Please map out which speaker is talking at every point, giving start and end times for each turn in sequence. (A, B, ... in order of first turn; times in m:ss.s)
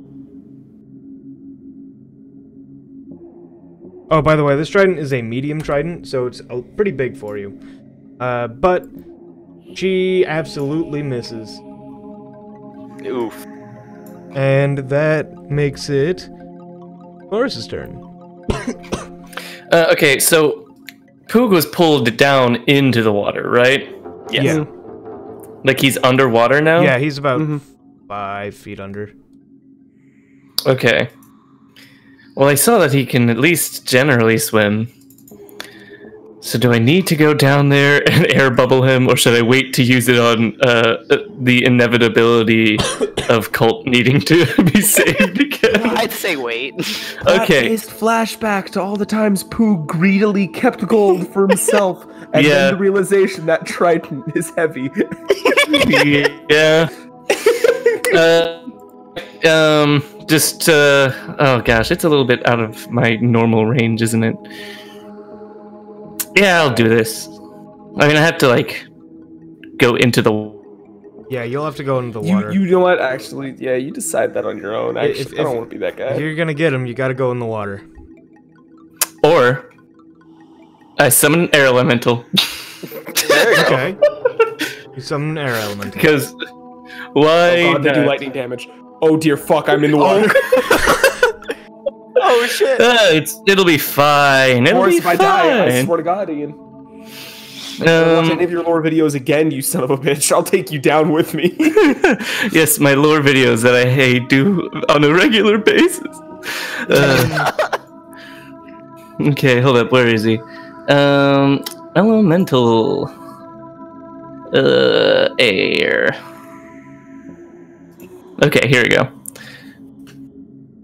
0:04.1-0:07.6 A
0:08.2-0:08.9 A
0:09.8-0:11.6 A
0:13.0-0:13.4 B
0:14.4-0:16.3 A
0:17.3-0:18.0 A
0:19.7-0:20.7 C
0:21.3-0:23.9 C
0:24.3-0:24.6 B
0:24.4-0:24.7 A
0:24.4-0:24.7 D
0:25.6-0:27.0 C
0:26.8-0:29.1 A
0:27.4-0:27.6 D
0:30.6-0:31.1 C
0:32.4-0:34.9 C
0:36.4-0:46.0 C
0:45.8-0:47.0 E
0:47.2-0:47.8 C
0:47.2-0:55.9 D
0:52.3-0:52.8 C
0:55.7-0:56.9 C
0:57.5-0:58.0 D
0:58.0-0:58.6 C
0:59.4-1:04.4 C
1:06.4-1:07.4 C
1:08.0-1:08.9 C
1:09.8-1:10.6 C
1:11.3-1:12.6 A
1:12.2-1:16.3 D
1:15.0-1:17.8 A
1:19.2-1:19.7 C
1:21.0-1:22.4 C
1:23.2-1:23.8 E
1:23.2-1:23.8 B
1:23.5-1:24.0 A
1:25.0-1:26.1 A
1:25.9-1:26.3 C
1:27.2-1:28.2 C
1:27.5-1:30.7 D
1:30.0-1:31.1 B
1:32.2-1:32.8 B
1:32.7-1:35.9 C
1:34.7-1:36.6 D
1:37.8-1:38.5 C
1:37.8-1:41.9 D
1:41.8-1:47.4 C
1:46.9-1:47.5 A
1:47.4-1:47.7 E
1:49.2-1:53.1 C
1:54.5-1:56.2 C
1:58.4-1:59.1 C